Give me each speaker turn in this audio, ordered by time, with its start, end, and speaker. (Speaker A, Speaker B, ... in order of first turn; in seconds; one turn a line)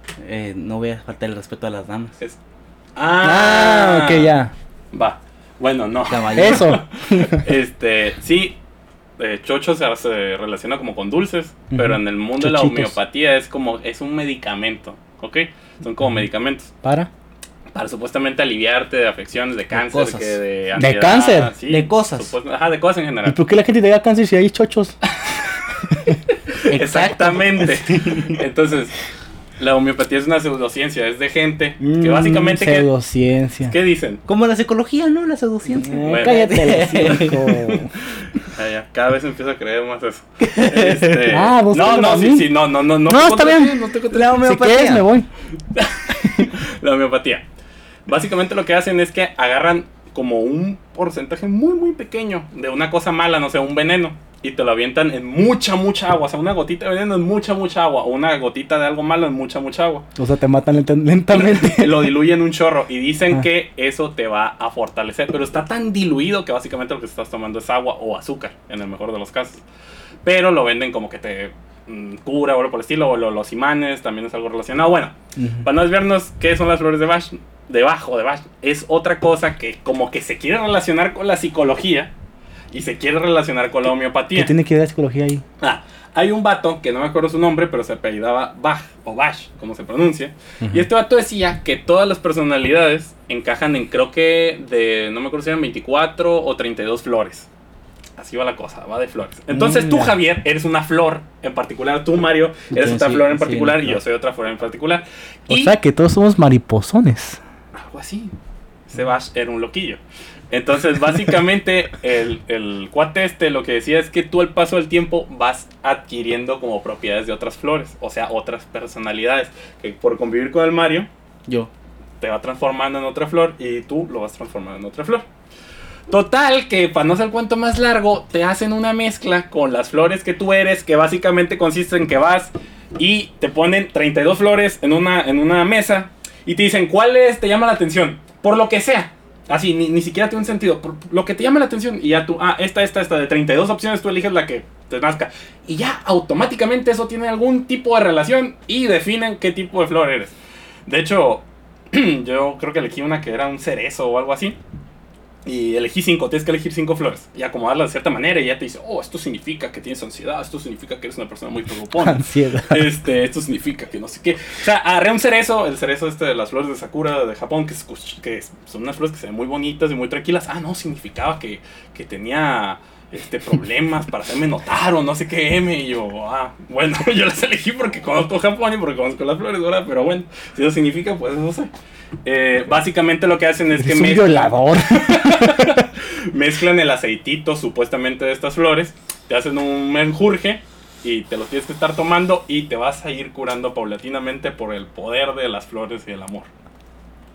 Speaker A: 0.2-2.2
Speaker B: 3.0-4.3
Speaker C: 3.2-4.5
Speaker B: 4.9-8.6
Speaker A: 6.1-6.8
Speaker C: 6.3-7.5
Speaker B: 9.2-16.7
Speaker C: 11.8-13.0
Speaker C: 16.8-17.1
Speaker B: 17.7-23.4
Speaker A: 19.7-20.4
Speaker C: 20.8-21.5
Speaker A: 21.7-22.3
Speaker C: 23.3-25.0
Speaker B: 26.7-29.0
Speaker A: 26.7-28.4
Speaker B: 29.6-32.9
Speaker C: 31.8-33.8
Speaker B: 33.7-34.2
Speaker A: 34.3-37.7
Speaker C: 35.7-37.9
Speaker B: 36.0-36.4
Speaker B: 38.4-44.4
Speaker A: 40.4-41.3
Speaker C: 41.3-42.5
Speaker C: 43.1-45.3
Speaker A: 44.1-45.0
Speaker B: 45.7-47.4
Speaker B: 48.1-60.0
Speaker C: 60.2-62.1
Speaker B: 61.3-69.6
Speaker B: 70.2-82.1
Speaker C: 75.4-75.7
Speaker B: 82.7-84.5
Speaker C: 84.3-85.4
Speaker B: 85.6-97.5
Speaker B: 98.2-105.8
Speaker C: 99.5-100.1
Speaker A: 102.7-104.0
Speaker C: 105.5-107.4
Speaker B: 107.7-108.3
Speaker B: 108.9-121.1
Speaker B: 122.2-125.3
Speaker B: 126.1-154.6
Speaker B: 155.4-181.7
Speaker C: 162.0-162.9
Speaker B: 182.2-196.5
Speaker C: 183.8-185.8